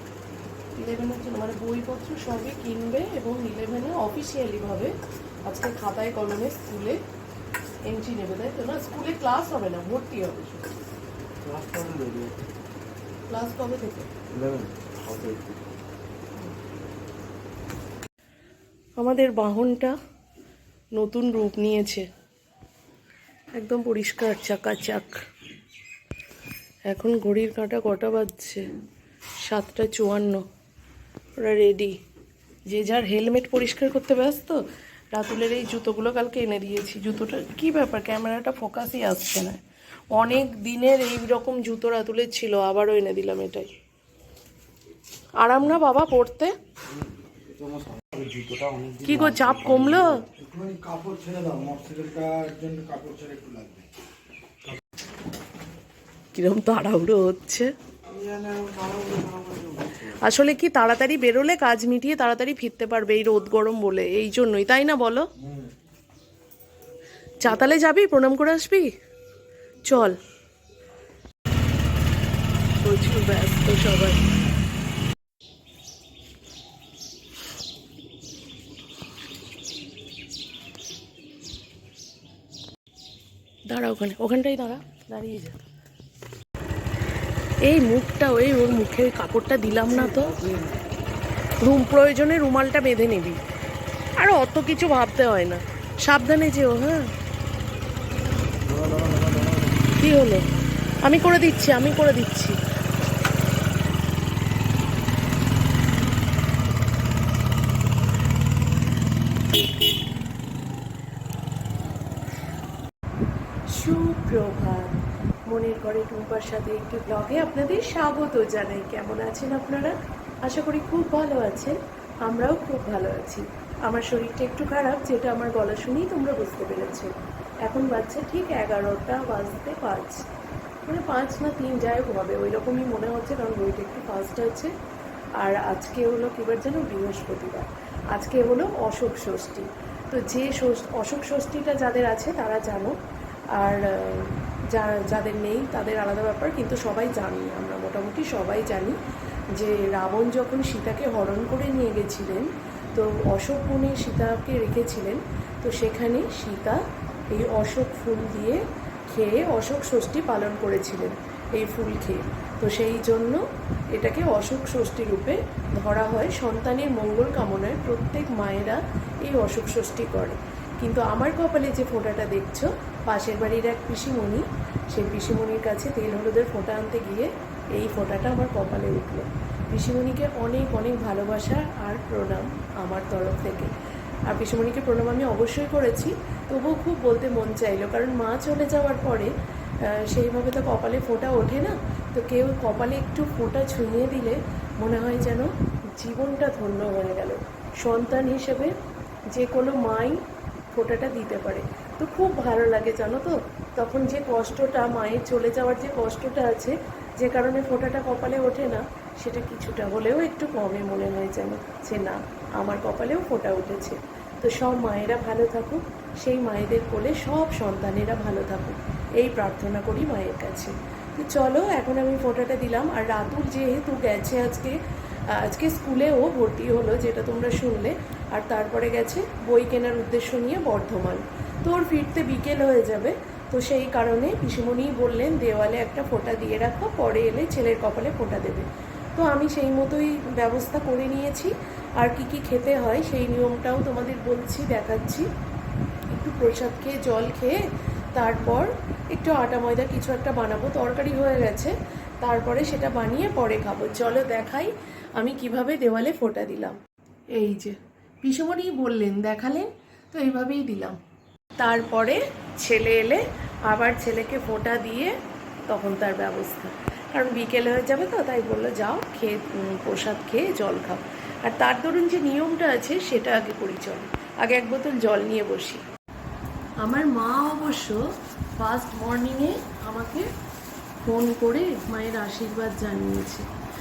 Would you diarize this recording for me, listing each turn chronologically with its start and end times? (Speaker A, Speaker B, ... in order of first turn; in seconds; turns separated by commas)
Speaker A: 0.8-7.0, Speaker A: 7.9-10.7, Speaker B: 11.4-12.4, Speaker A: 13.3-14.1, Speaker B: 14.3-15.6, Speaker A: 19.0-19.9, Speaker A: 20.9-22.1, Speaker A: 23.6-25.2, Speaker A: 26.9-28.7, Speaker A: 29.4-30.4, Speaker A: 31.4-32.0, Speaker A: 32.7-34.6, Speaker A: 35.1-39.6, Speaker A: 40.1-43.7, Speaker A: 45.4-46.5, Speaker B: 47.6-50.2, Speaker A: 49.0-50.2, Speaker C: 50.3-53.9, Speaker A: 56.3-57.7, Speaker B: 58.1-60.0, Speaker A: 60.0-65.3, Speaker A: 67.4-68.9, Speaker A: 69.8-70.2, Speaker A: 72.8-74.2, Speaker A: 83.7-85.6, Speaker A: 87.6-90.4, Speaker A: 91.6-93.4, Speaker A: 94.2-97.1, Speaker B: 98.7-99.6, Speaker A: 99.9-100.5, Speaker A: 101.0-102.6, Speaker A: 113.7-127.1, Speaker A: 127.7-130.2, Speaker A: 130.8-134.7, Speaker A: 135.4-143.0, Speaker A: 143.6-149.0, Speaker A: 149.6-156.8, Speaker A: 157.3-163.4, Speaker A: 163.9-183.7, Speaker A: 184.3-189.3, Speaker A: 189.9-198.7, Speaker A: 199.3-200.2, Speaker A: 200.7-224.8, Speaker A: 225.3-245.3, Speaker A: 246.1-247.6, Speaker A: 248.1-256.8, Speaker A: 257.3-261.0, Speaker A: 261.6-265.1, Speaker A: 265.7-275.8, Speaker A: 276.8-278.0, Speaker A: 278.6-280.3, Speaker A: 281.0-283.4